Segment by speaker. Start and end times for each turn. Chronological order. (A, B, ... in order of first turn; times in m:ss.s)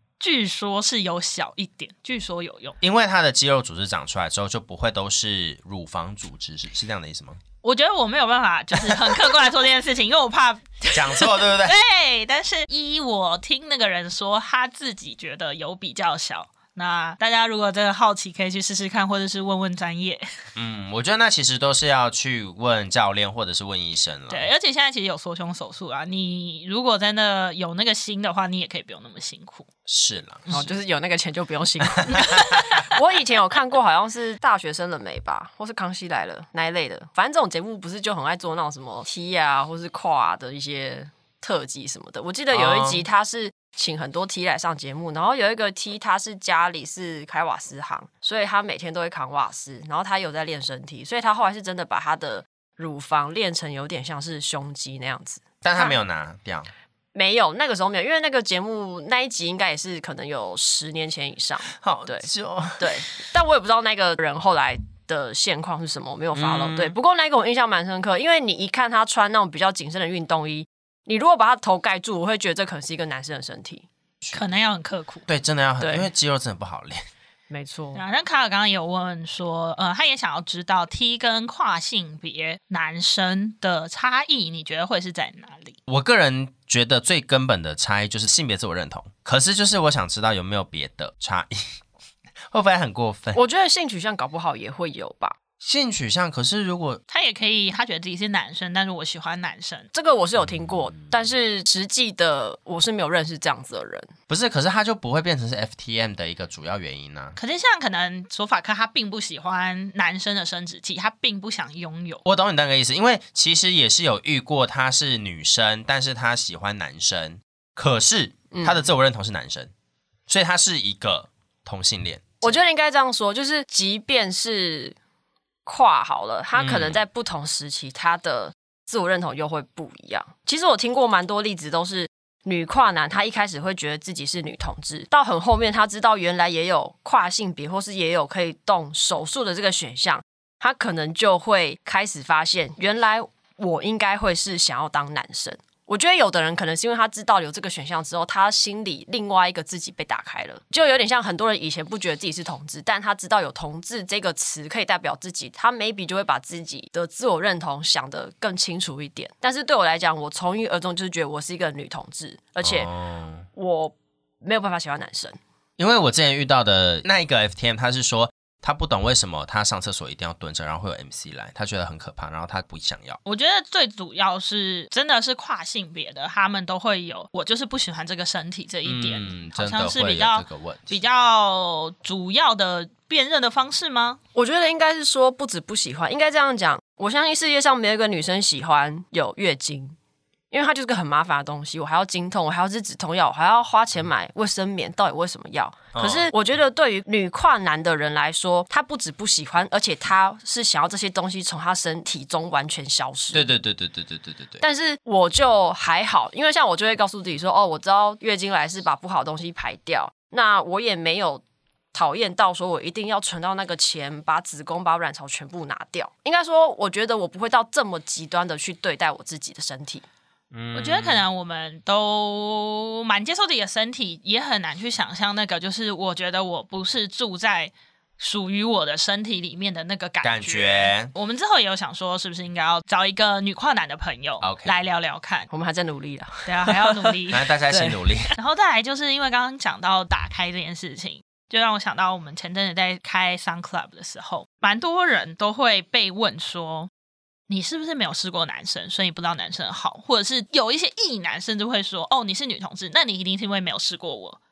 0:00.2-0:02.8 A
0:02.8-0:07.4 B
0:07.6-0:20.3 A
0:08.8-0:09.2 B
0:10.9-0:11.8 B
0:20.6-0:24.5 B
0:24.3-0:29.7 A
0:29.9-0:30.5 B
0:30.5-0:56.0 C
0:32.0-0:32.8 B
0:42.5-0:43.0 B
0:55.6-0:56.7 B
0:57.1-1:13.9 C
1:01.7-1:03.0 B
1:06.3-1:06.9 B
1:14.2-1:14.5 B
1:14.3-1:15.2 A
1:15.3-1:17.0 B
1:15.8-1:16.1 C
1:17.5-1:18.0 C
1:17.9-1:25.8 A
1:25.9-1:31.8 B
1:32.5-1:33.4 B
1:33.3-1:35.4 C
1:35.6-1:37.0 B
1:37.1-1:39.9 A
1:39.9-1:44.1 C
1:44.3-1:47.4 B
1:47.4-1:52.2 A
1:52.2-1:59.7 B
1:58.5-1:58.8 C
2:00.3-2:02.6 B
2:02.4-2:05.0 C
2:05.6-2:42.9 C
2:06.6-2:07.0 B
2:42.6-2:43.5 B
2:43.5-2:45.4 C
2:45.8-2:53.2 B
2:53.2-3:04.2 A
2:58.8-3:01.0 B
3:04.3-3:10.0 C
3:10.5-3:23.4 C
3:15.9-3:16.3 B
3:23.3-3:24.6 B
3:24.6-3:40.0 C
3:40.5-3:41.2 B
3:40.7-3:55.5 A
3:50.2-3:51.1 B
3:54.4-3:54.7 B
3:55.5-3:57.2 C
3:56.4-3:57.5 A
3:57.3-3:58.3 B
3:57.7-3:58.0 C
3:58.4-4:06.9 A
4:07.5-4:14.4 A